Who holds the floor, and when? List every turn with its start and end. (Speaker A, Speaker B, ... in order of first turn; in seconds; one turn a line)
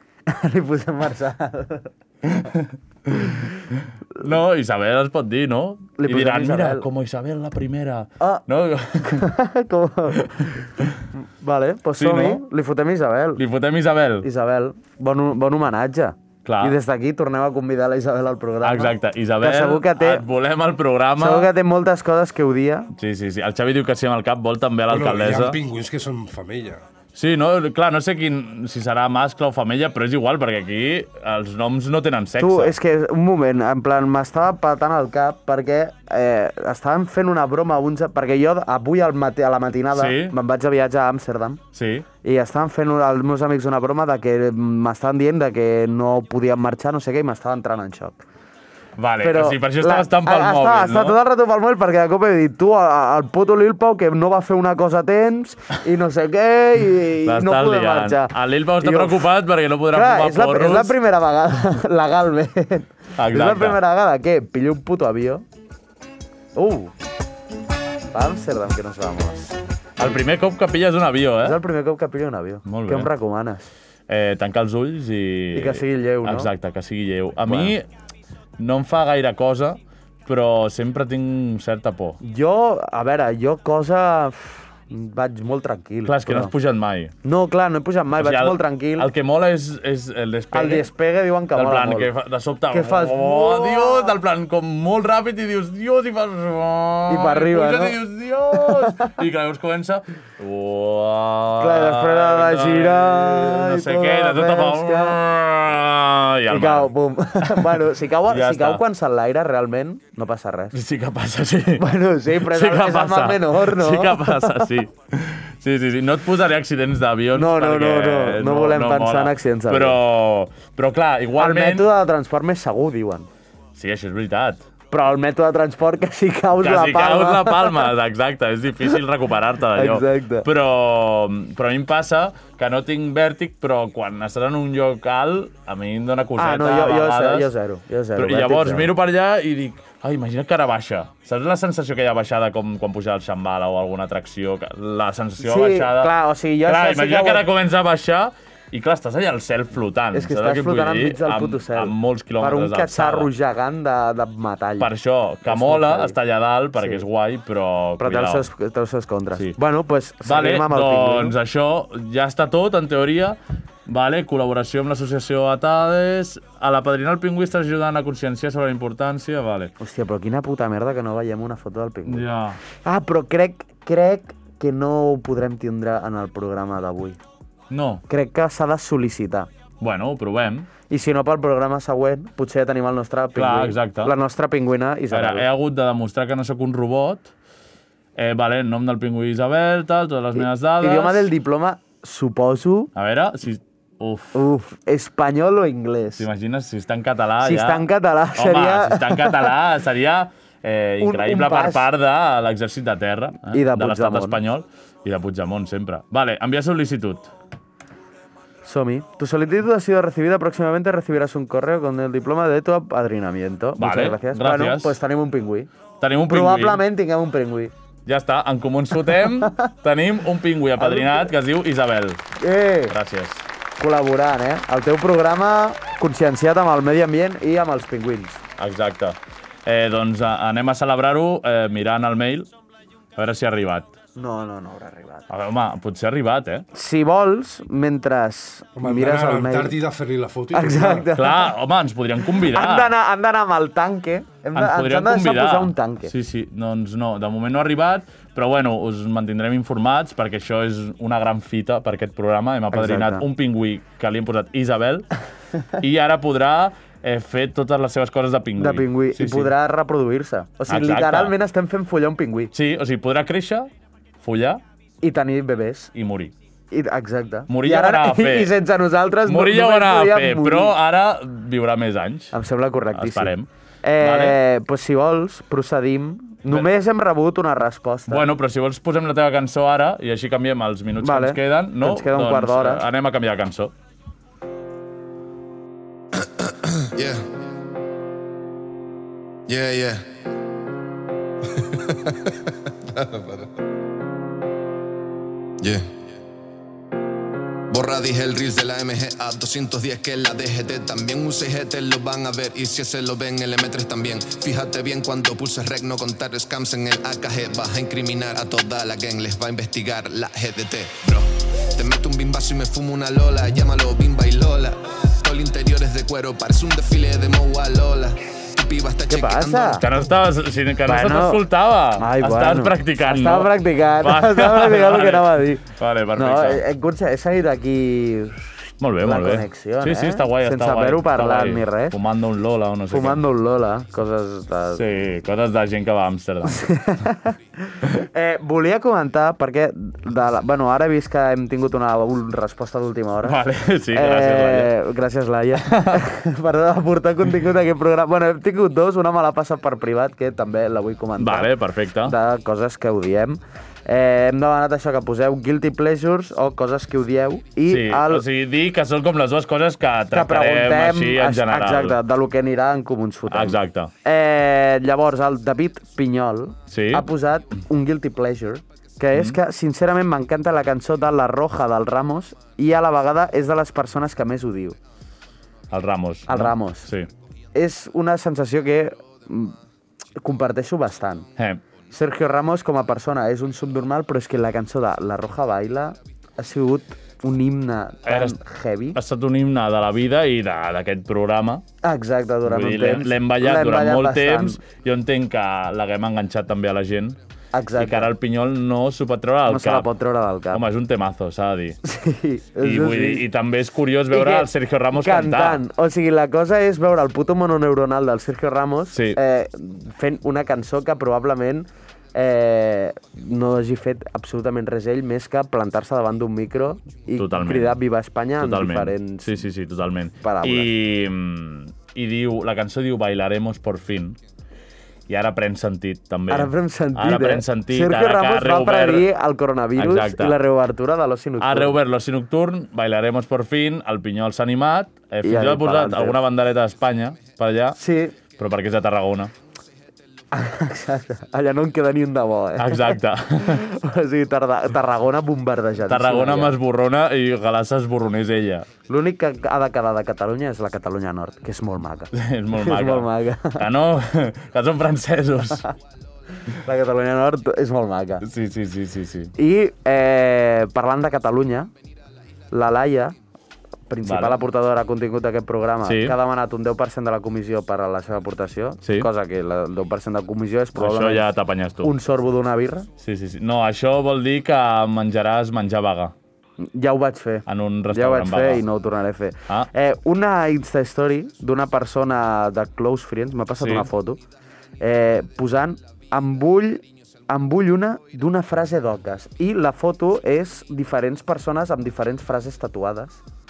Speaker A: 0.3-1.9
Speaker B: 2.2-9.3
Speaker A: 6.0-6.8
Speaker A: 8.2-8.4
Speaker A: 9.0-10.3
Speaker B: 10.1-11.0
Speaker A: 11.2-13.4
Speaker B: 12.0-12.4
Speaker B: 13.3-14.3
Speaker A: 14.2-20.2
Speaker B: 16.4-16.8
Speaker B: 18.6-21.5
Speaker A: 21.2-22.9
Speaker B: 22.9-25.6
Speaker C: 24.9-26.8
Speaker B: 27.1-32.7
Speaker A: 32.4-41.6
Speaker B: 39.9-40.4
Speaker B: 41.7-42.0
Speaker A: 42.2-48.2
Speaker B: 49.0-51.2
Speaker A: 49.2-59.3
Speaker B: 57.2-61.0
Speaker A: 59.9-65.4
Speaker B: 63.2-63.8
Speaker A: 66.5-66.9
Speaker A: 68.1-70.2
Speaker B: 70.0-71.6
Speaker A: 71.4-73.7
Speaker B: 72.7-73.1
Speaker B: 74.1-77.8
Speaker A: 75.5-76.5
Speaker A: 77.5-77.7
Speaker B: 78.6-82.2
Speaker A: 82.2-86.5
Speaker B: 86.0-87.1
Speaker A: 87.2-89.1
Speaker B: 88.2-90.9
Speaker A: 90.5-92.1
Speaker B: 91.5-108.8
Speaker A: 92.7-94.1
Speaker A: 97.1-98.0
Speaker A: 98.5-99.1
Speaker A: 101.6-105.2
Speaker A: 106.5-110.7
Speaker B: 110.7-121.9
Speaker A: 111.8-114.7
Speaker A: 117.3-120.0
Speaker A: 121.4-123.3
Speaker B: 123.7-124.6
Speaker A: 124.9-127.9
Speaker B: 126.5-137.5
Speaker A: 129.7-130.5
Speaker A: 136.4-138.9
Speaker B: 138.1-146.1
Speaker A: 145.4-147.5
Speaker B: 146.6-153.3
Speaker A: 150.1-154.9
Speaker B: 154.8-158.4
Speaker A: 155.5-156.2
Speaker A: 156.8-157.0
Speaker A: 158.0-161.3
Speaker B: 160.2-169.7
Speaker A: 169.8-172.2
Speaker B: 172.0-172.6
Speaker A: 172.8-177.2
Speaker B: 177.7-178.0
Speaker A: 178.1-179.5
Speaker B: 179.8-180.7
Speaker A: 180.9-185.5
Speaker B: 183.3-184.1
Speaker B: 185.1-187.3
Speaker B: 188.2-191.3
Speaker A: 190.3-192.9
Speaker B: 192.9-194.4
Speaker A: 194.3-196.2
Speaker B: 196.2-207.3
Speaker A: 197.4-199.5
Speaker A: 201.0-201.8
Speaker A: 203.4-204.4
Speaker A: 208.6-215.7
Speaker B: 213.8-215.0
Speaker B: 216.0-216.8
Speaker A: 216.3-217.7
Speaker B: 218.1-222.2
Speaker A: 219.1-219.7
Speaker A: 220.8-221.3
Speaker A: 222.4-222.9
Speaker B: 222.9-223.4
Speaker A: 223.8-228.4
Speaker B: 228.6-232.5
Speaker B: 233.2-233.9
Speaker A: 234.2-235.3
Speaker B: 235.3-236.7
Speaker A: 236.7-239.8
Speaker C: 238.8-241.1
Speaker A: 240.5-241.5
Speaker B: 241.1-242.9
Speaker A: 242.4-246.1
Speaker B: 244.5-255.1
Speaker A: 252.7-253.2
Speaker B: 255.8-259.5
Speaker A: 258.6-262.5
Speaker B: 260.7-261.4
Speaker B: 262.5-264.6
Speaker A: 265.0-265.9
Speaker B: 265.9-266.3
Speaker A: 266.7-270.7
Speaker B: 267.5-268.5
Speaker B: 269.2-272.3
Speaker A: 272.3-278.2
Speaker B: 272.9-274.4
Speaker B: 278.1-283.7
Speaker A: 281.0-282.8
Speaker D: 286.2-287.2
Speaker D: 289.5-290.0
Speaker D: 291.6-292.1
Speaker D: 292.9-293.4
Speaker D: 295.6-295.9
Speaker D: 297.7-319.6
Speaker A: 319.1-319.8
Speaker B: 319.5-326.6
Speaker A: 320.9-321.4
Speaker A: 321.9-325.6
Speaker A: 326.1-332.0
Speaker B: 328.8-333.2
Speaker A: 332.9-334.8
Speaker B: 334.7-336.7
Speaker A: 336.4-343.4
Speaker B: 343.2-344.7
Speaker A: 343.9-351.5
Speaker B: 345.6-346.0
Speaker B: 351.2-352.1
Speaker A: 352.0-358.2
Speaker B: 357.7-362.0
Speaker A: 360.1-374.8
Speaker B: 363.3-363.9
Speaker B: 366.7-367.1
Speaker B: 369.1-369.4
Speaker B: 375.7-377.1
Speaker A: 376.3-376.9
Speaker A: 377.5-379.6
Speaker A: 380.2-381.3
Speaker B: 381.4-381.6
Speaker A: 381.9-389.0
Speaker B: 388.1-388.4
Speaker B: 388.9-391.6
Speaker A: 391.8-394.6
Speaker B: 392.4-397.2
Speaker A: 397.5-398.1
Speaker B: 397.8-399.9
Speaker A: 399.5-400.6
Speaker B: 400.5-401.8
Speaker A: 401.8-403.2
Speaker B: 402.6-405.6
Speaker A: 404.1-419.4
Speaker B: 408.9-409.2
Speaker B: 417.2-417.8
Speaker B: 418.4-424.2
Speaker A: 420.2-420.7
Speaker B: 425.1-429.1
Speaker A: 426.3-431.8
Speaker B: 429.8-430.4
Speaker B: 431.4-437.8
Speaker A: 435.2-436.2
Speaker A: 437.8-438.1
Speaker B: 438.4-439.3
Speaker A: 440.3-446.6
Speaker B: 442.6-443.7
Speaker B: 445.9-448.7
Speaker A: 448.9-453.6
Speaker B: 452.1-455.6
Speaker A: 456.5-458.2
Speaker B: 458.2-459.3
Speaker A: 459.4-461.7
Speaker A: 462.5-463.1
Speaker A: 463.9-471.2
Speaker B: 464.0-464.4
Speaker B: 465.8-466.1
Speaker B: 468.8-469.1
Speaker B: 470.7-471.9
Speaker A: 471.8-472.9
Speaker B: 473.0-476.1
Speaker A: 476.6-484.2
Speaker B: 477.5-478.6
Speaker B: 483.6-483.9
Speaker A: 484.8-493.2